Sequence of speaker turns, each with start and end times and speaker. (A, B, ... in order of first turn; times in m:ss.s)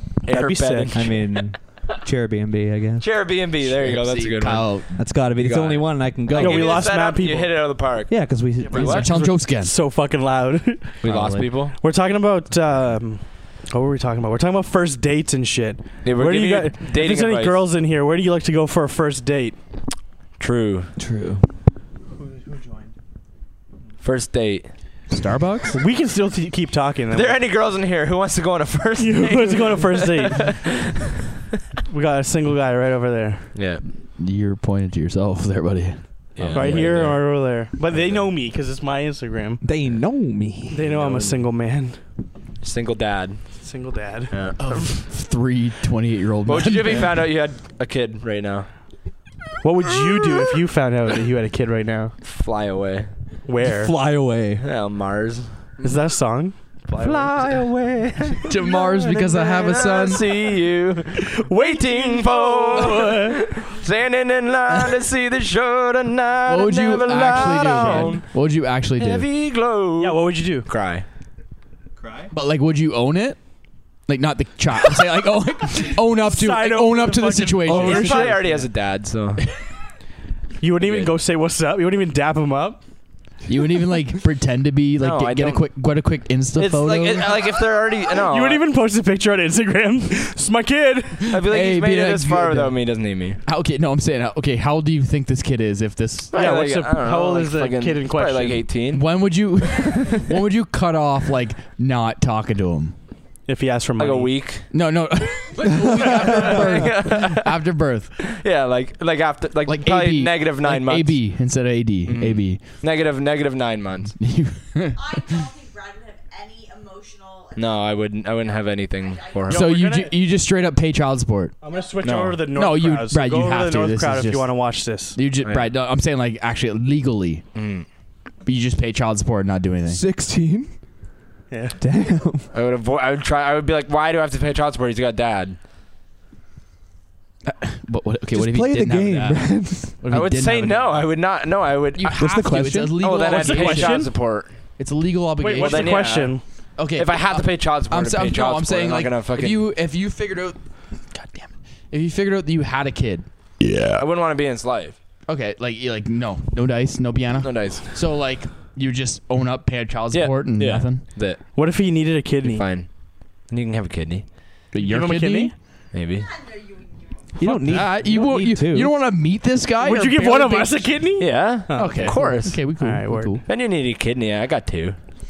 0:00.2-0:01.6 A
0:00.3-0:01.0 B
0:00.9-0:03.0 C
0:03.0-0:04.8 A
0:03.6-0:05.0 D
0:05.0-0:06.9 C
0:05.3-0:09.1 A
0:06.3-0:07.5 B
0:08.1-0:09.3 C
0:08.7-0:09.7 D
0:08.8-0:11.0 B
0:11.0-0:11.8 A
0:11.0-0:11.5 C
0:11.7-0:19.6 B
0:16.0-0:17.6 A
0:20.4-0:20.9 A
0:21.0-0:21.4 C
0:22.1-0:22.9 B
0:24.0-0:24.7 A
0:25.1-0:25.8 D
0:25.7-0:27.4 B
0:27.1-0:31.0 A
0:29.0-0:30.6 B
0:31.9-0:33.5 B
0:33.5-0:33.8 A
0:34.2-0:36.8 D
0:36.3-0:37.2 A
0:36.5-0:39.6 B
0:37.9-0:38.2 A
0:39.6-0:40.9 C
0:40.7-0:42.0 B
0:40.8-0:41.4 A
0:42.6-0:43.4 A
0:43.6-0:44.3 B
0:44.3-0:45.0 A
0:44.6-0:47.2 D
0:46.4-0:48.7 A
0:49.6-0:52.1 B
0:52.2-0:53.1 A
0:53.5-0:53.9 B
0:53.8-0:54.6 C
0:54.6-0:55.5 A
0:55.8-0:57.3 B
0:56.9-1:08.2 A
0:58.4-1:00.2 D
1:01.2-1:03.6 B
1:06.4-1:09.3 D
1:07.3-1:08.2 B
1:09.0-1:11.0 A
1:10.0-1:10.7 B
1:12.3-1:13.4 D
1:14.1-1:18.4 D
1:15.9-1:18.6 B
1:17.6-1:19.4 A
1:18.1-1:18.3 C
1:20.6-1:22.8 B
1:20.8-1:21.1 A
1:23.4-1:27.4 D
1:25.0-1:25.7 A
1:26.6-1:28.6 A
1:28.2-1:31.3 B
1:31.3-1:33.4 A
1:31.3-1:32.8 D
1:33.4-1:36.4 D
1:36.3-1:39.0 A
1:36.3-1:38.6 B
1:38.9-1:43.0 D
1:43.5-1:44.3 B
1:44.0-1:44.7 A
1:44.7-1:48.3 D
1:45.7-1:47.6 A
1:48.2-1:51.2 A
1:49.6-1:52.6 D
1:52.0-1:54.1 A
1:54.2-1:55.4 D
1:54.9-1:59.6 E
1:57.6-1:59.7 A
1:59.5-2:00.1 B
1:59.5-2:01.5 D
2:01.6-2:05.2 B
2:02.0-2:02.4 A
2:02.4-2:07.4 D
2:05.4-2:05.7 A
2:07.5-2:07.8 A
2:08.4-2:10.0 D
2:09.9-2:10.7 C
2:11.5-2:11.8 B
2:11.8-2:12.5 C
2:12.5-2:15.6 A
2:17.4-2:21.1 D
2:18.3-2:20.0 C
2:20.1-2:22.2 A
2:22.0-2:24.1 D
2:22.1-2:23.0 C
2:23.0-2:24.5 A
2:23.2-2:24.1 B
2:24.8-2:26.1 D
2:25.4-2:26.4 B
2:25.6-2:26.4 A
2:26.8-2:34.0 D
2:26.9-2:29.6 A
2:33.9-2:35.0 A
2:35.3-2:41.0 D
2:37.4-2:37.9 A
2:40.1-2:41.5 A
2:41.5-2:42.6 B
2:42.4-2:42.9 A
2:43.5-2:44.3 A
2:44.7-2:45.5 D
2:44.8-2:45.5 B
2:45.9-2:46.3 A
2:46.1-2:47.3 E
2:47.4-2:48.9 C
2:47.4-2:50.9 D
2:49.8-2:53.4 B
2:51.2-2:52.6 A
2:51.7-2:53.4 D
2:53.4-2:55.0 A